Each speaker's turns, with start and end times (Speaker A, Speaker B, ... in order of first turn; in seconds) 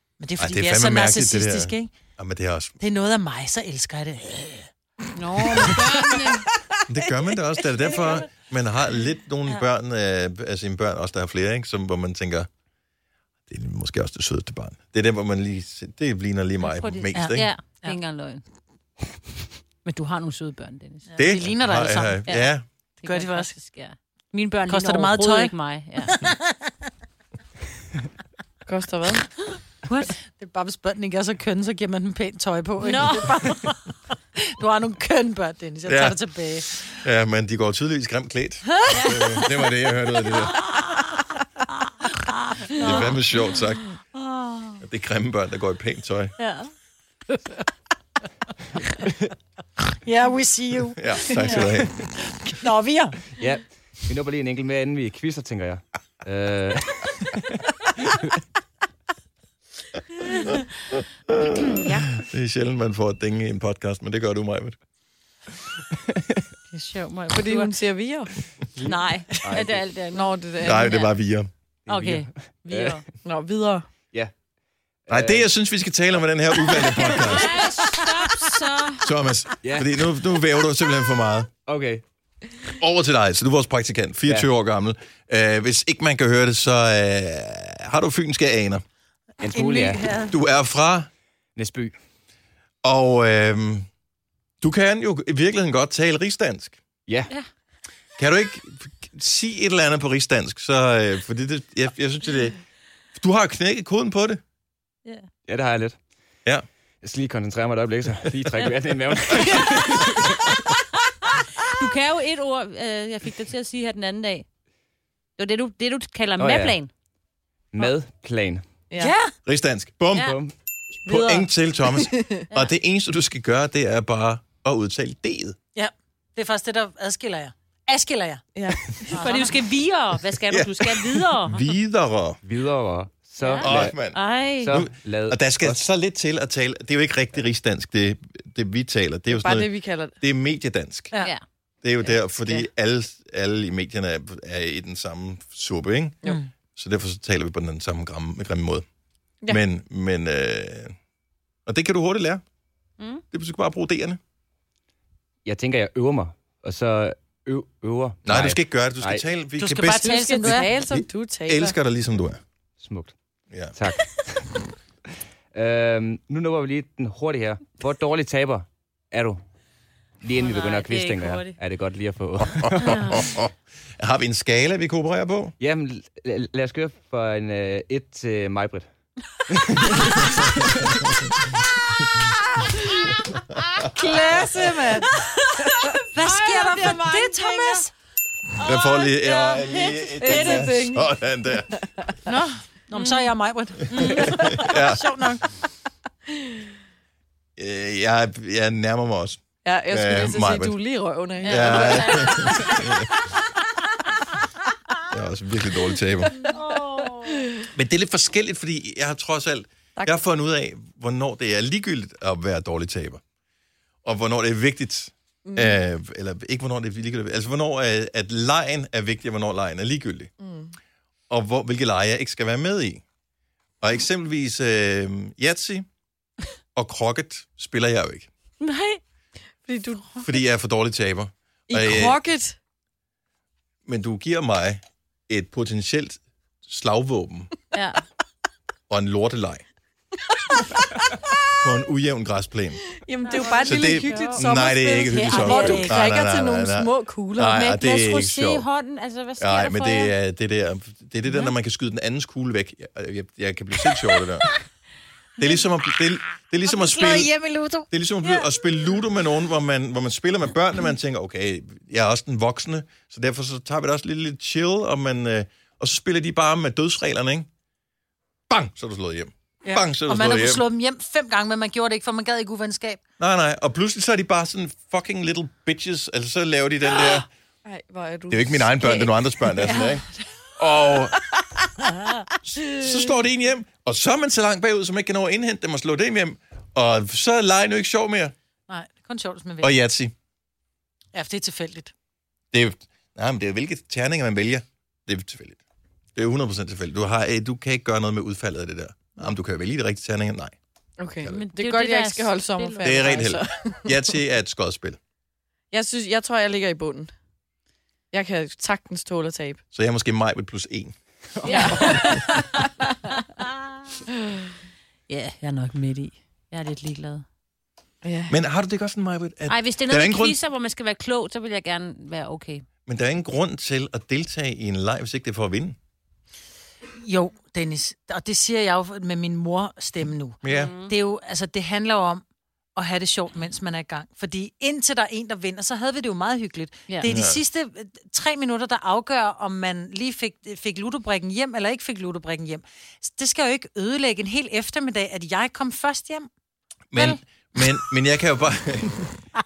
Speaker A: 0.2-1.9, 2.8-4.7, 5.3-6.4, 7.6-8.2, 17.1-18.0, 21.1-22.3, 23.0-23.5, 24.7-26.7, 29.8-37.0, 38.8-39.5, 40.6-41.2, 42.7-43.2, 44.1-44.8, 50.0-53.3, 89.5-90.3, 119.0-119.3, 125.7-128.4, 129.1-129.6, 159.6-160.7, 183.9-185.0, 186.1-187.9, 192.2-195.4, 245.1-246.0, 256.6-257.9, 269.6-273.0, 279.6-279.9, 288.7-289.8, 291.1-291.9, 327.0-332.2, 332.8-346.3, 346.9-347.8
Speaker B: 0.4-2.8, 6.9-12.5, 13.5-17.5, 21.2-22.6, 35.9-36.2, 36.8-40.6, 42.8-43.9, 44.8-46.3, 51.0-52.0, 61.3-64.8, 70.6-71.5, 75.1-77.6, 79.0-81.5, 82.8-88.8, 90.3-91.1, 92.8-93.9, 94.6-96.8, 98.2-102.6, 103.2-104.4, 119.4-120.4, 121.0-125.6, 130.5-132.4, 133.6-139.7, 140.2-141.1, 141.8-146.2, 146.8-148.8, 149.5-150.9, 151.7-152.4, 153.3-154.2, 158.2-162.4, 172.4-175.5, 180.6-181.2, 183.6-184.4, 188.6-191.9, 193.9-195.1, 197.6-200.8, 201.4-203.1, 205.1-206.4, 207.7-213.2, 214.0-220.3, 221.3-223.0, 223.8-225.9, 226.7-228.3, 230.2-232.2, 233.8-237.5, 238.9-239.6, 241.5-242.9, 243.6-248.7, 249.4-254.5, 255.4-257.3, 257.9-267.5, 268.5-270.6, 273.2-277.3, 278.3-280.0, 280.6-281.3, 282.4-288.3, 289.6-290.1, 292.5-295.6, 296.1-300.6, 302.8-305.0, 309.7-310.9, 311.8-312.2, 318.3-320.4, 322.9-325.8, 330.4-330.7, 337.0-337.4, 346.9-349.2
Speaker C: 5.1-6.4, 16.6-18.4, 19.8-21.1, 22.2-26.1, 32.8-33.6, 38.9-39.5, 42.7-43.1, 61.5-62.1, 66.7-67.7, 68.8-71.1, 71.9-73.0, 77.0-79.1, 111.2-114.5, 115.4-116.9, 129.1-131.6, 133.4-134.7, 141.2-141.4, 170.3-171.5, 172.8-173.1, 180.0-180.2, 185.0-187.8, 188.6-190.7, 192.9-193.3, 193.9-194.3, 201.4-202.8, 206.4-207.4, 228.6-229.0, 237.7-238.0, 243.2-244.4, 245.1-245.9, 247.4-250.1, 301.3-303.2, 311.4-312.6, 313.2-313.5, 315.1-317.2, 319.5-322.6, 330.4-330.9
Speaker D: 28.6-29.2, 67.3-68.3, 70.1-70.9, 73.2-73.8, 121.1-122.4, 128.5-129.2, 139.3-140.2, 159.9-161.7, 183.8-185.1, 189.9-191.1, 194.3-194.7, 199.6-203.0, 206.4-207.7, 215.5-215.8, 220.4-220.7, 229.6-230.2, 231.7-232.6, 240.3-241.3, 243.0-247.6, 277.6-279.1, 301.0-304.0, 305.7-307.1, 308.1-309.6, 311.4-312.9, 318.0-318.4
Speaker E: 53.4-58.4, 66.1-66.4, 68.8-69.8, 71.9-73.0, 75.1-75.5, 76.7-77.3, 79.6-79.9, 81.7-82.0, 89.4-90.0, 91.5-92.0, 105.5-106.0, 107.0-110.6, 116.4-116.8, 117.7-118.6, 120.2-120.5, 132.4-134.0, 134.6-135.8, 155.4-159.2, 162.8-163.1, 163.7-164.7, 165.5-169.4, 170.2-173.2, 175.6-178.8, 179.5-180.9